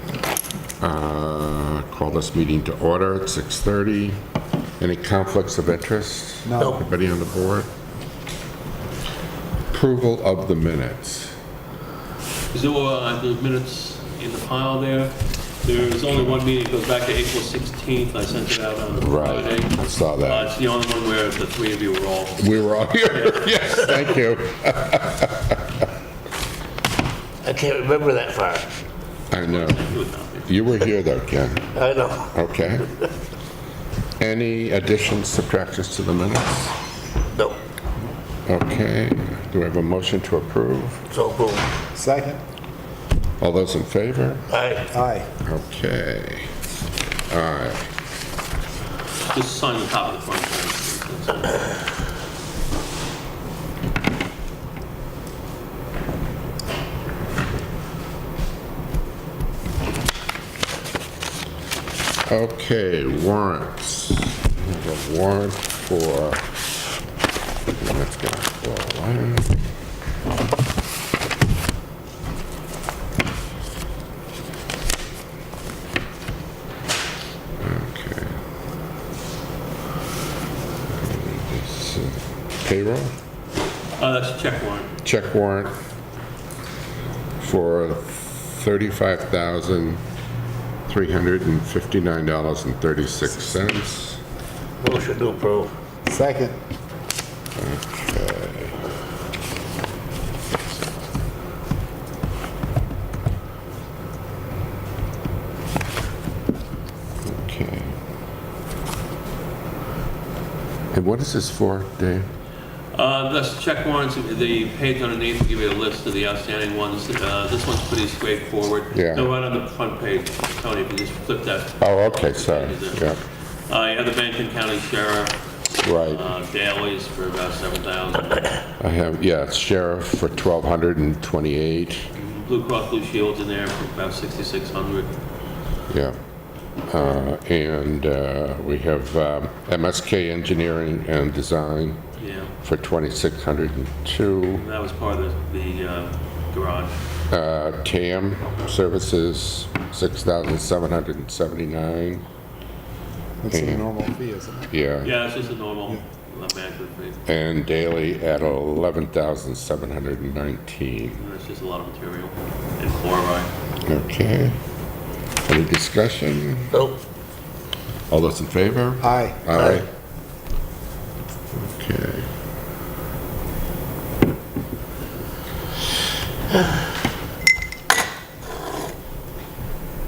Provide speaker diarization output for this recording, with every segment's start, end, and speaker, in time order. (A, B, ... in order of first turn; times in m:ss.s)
0:00.8-0:04.2 A
0:04.8-0:07.7 A
0:06.5-0:06.7 B
0:09.7-0:11.4 A
0:12.5-0:22.6 C
0:18.9-0:20.5 A
0:22.4-0:25.8 A
0:23.1-0:23.5 C
0:27.4-0:28.7 D
0:29.3-0:31.8 A
0:29.5-0:30.5 C
0:31.7-0:32.4 D
0:32.3-0:32.9 A
0:34.2-0:36.8 A
0:37.3-0:37.6 D
0:38.5-0:41.0 A
0:41.1-0:41.7 D
0:41.9-0:42.4 B
0:43.4-0:44.5 A
0:44.5-0:44.9 D
0:44.9-0:45.3 B
0:45.4-0:46.5 A
0:47.3-0:47.9 A
0:49.3-0:51.6 C
1:02.3-1:06.4 A
1:07.8-1:09.6 A
1:17.6-1:18.4 A
1:20.9-1:23.1 A
1:24.0-1:24.9 C
1:25.0-1:25.8 A
1:27.4-1:30.0 A
1:30.9-1:34.2 A
1:34.8-1:35.8 D
1:36.1-1:36.6 B
1:37.6-1:38.8 A
1:47.2-1:48.0 A
1:50.9-1:52.3 A
1:52.9-2:03.1 C
1:58.9-1:59.3 A
2:01.8-2:03.2 A
2:03.7-2:05.4 C
2:05.8-2:06.3 A
2:06.0-2:08.6 C
2:08.8-2:12.1 A
2:12.2-2:15.1 C
2:15.9-2:16.2 A
2:16.9-2:22.0 A
2:22.2-2:22.5 C
2:22.6-2:24.6 A
2:24.5-2:27.0 C
2:27.3-2:32.2 A
2:33.4-2:34.7 B
2:33.5-2:33.9 A
2:34.7-2:35.2 A
2:35.0-2:37.2 C
2:37.3-2:41.2 A
2:41.2-2:43.5 C
2:43.8-2:44.6 A
2:45.5-2:46.8 A
2:46.7-2:47.0 D
2:48.1-2:49.9 A
2:49.0-2:49.9 B
2:51.5-2:52.3 A